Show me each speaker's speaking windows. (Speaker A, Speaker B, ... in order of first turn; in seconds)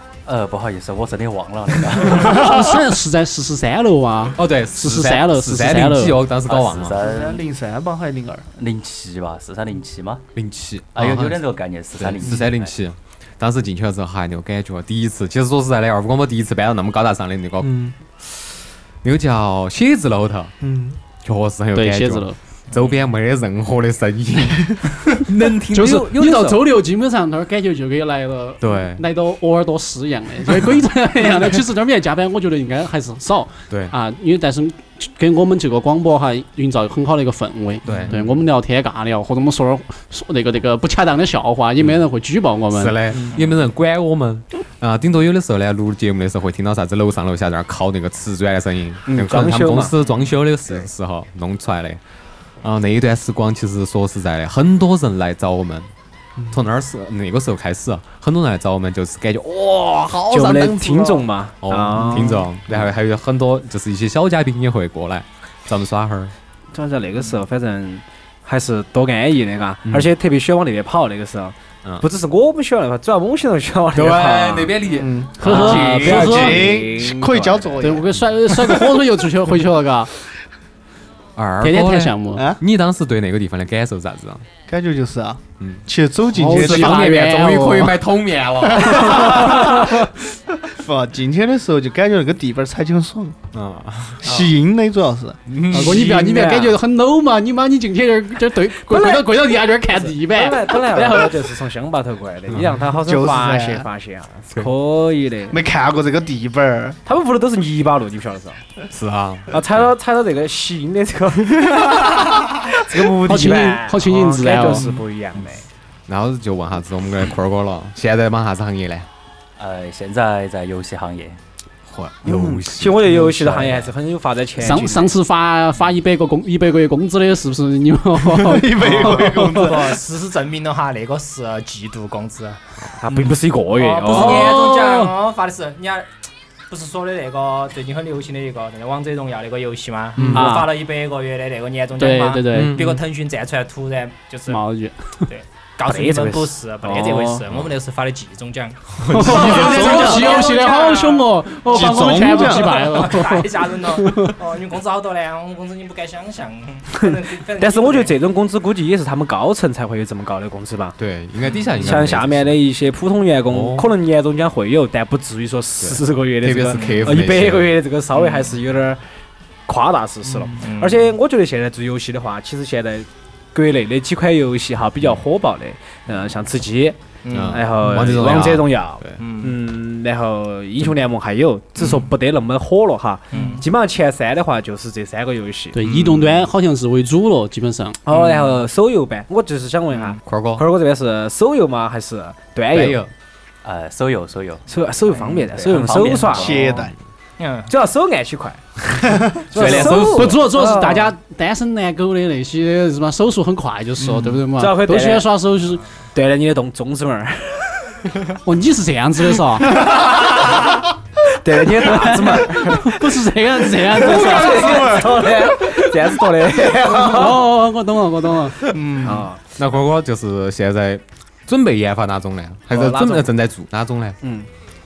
Speaker A: 0.2-2.4, 6.4-7.4, 8.6-10.2, 10.9-12.8, 119.6-121.4, 123.5-123.9, 193.6-194.7, 195.2-196.9
Speaker B: 2.2-6.2, 21.7-22.4, 25.7-43.0, 75.4-76.6, 77.8-80.1, 81.6-82.4, 86.3-87.9, 89.5-89.9, 95.7-101.3, 113.2-114.9, 124.6-129.6, 134.1-135.1, 140.3-140.7, 142.0-142.9, 144.5-145.3, 149.1-154.3, 185.7-188.0, 200.1-205.8, 208.4-209.9, 211.8-215.8, 216.9-218.7
Speaker C: 4.3-7.0, 10.3-11.4, 12.0-18.4, 19.0-20.5, 21.1-26.6, 28.6-29.0, 33.7-33.9, 37.8-38.3, 42.7-52.0, 52.6-55.9, 56.5-66.3, 73.9-76.6, 81.3-84.4, 85.6-85.8, 86.5-89.6, 93.5-94.2, 95.5-96.6, 102.5-102.8, 108.9-109.9, 116.1-119.1, 121.9-123.5, 142.5-143.0, 149.0-150.2, 161.0-162.5, 163.5-163.9, 165.8-167.8, 177.3-179.2, 190.2-190.6, 192.7-193.1, 199.5-200.4, 219.5-224.2
Speaker D: 7.0-8.4, 20.6-21.0, 74.9-78.1, 84.7-87.1, 88.8-90.0, 90.6-93.4, 94.2-95.4, 103.0-103.9, 105.5-107.0, 128.3-130.0, 149.2-150.4, 151.7-152.9, 196.3-196.9, 213.9-215.7, 216.6-217.3
Speaker E: 49.1-49.9, 60.3-62.5, 66.7-74.7, 75.4-77.8, 95.9-96.7, 98.8-105.6, 107.0-108.6, 109.5-115.7, 122.2-125.1, 133.0-134.7, 140.2-140.5, 145.8-147.4, 157.0-160.9, 161.8-169.0, 169.7-185.9, 188.1-193.0, 194.7-196.6, 197.7-201.1, 204.1-205.3, 206.1-207.9, 209.7-210.7, 211.4-213.1, 214.0-217.4, 219.0-219.4, 222.7-223.3, 224.2-224.5
Speaker F: 128.8-132.6, 133.7-136.1, 136.7-144.6, 145.3-158.1, 166.7-167.2, 168.1-168.5, 170.3-171.1, 177.2-178.0, 179.2-179.6, 181.8-182.1, 183.3-183.7, 188.1-188.6, 197.4-197.7, 218.7-219.3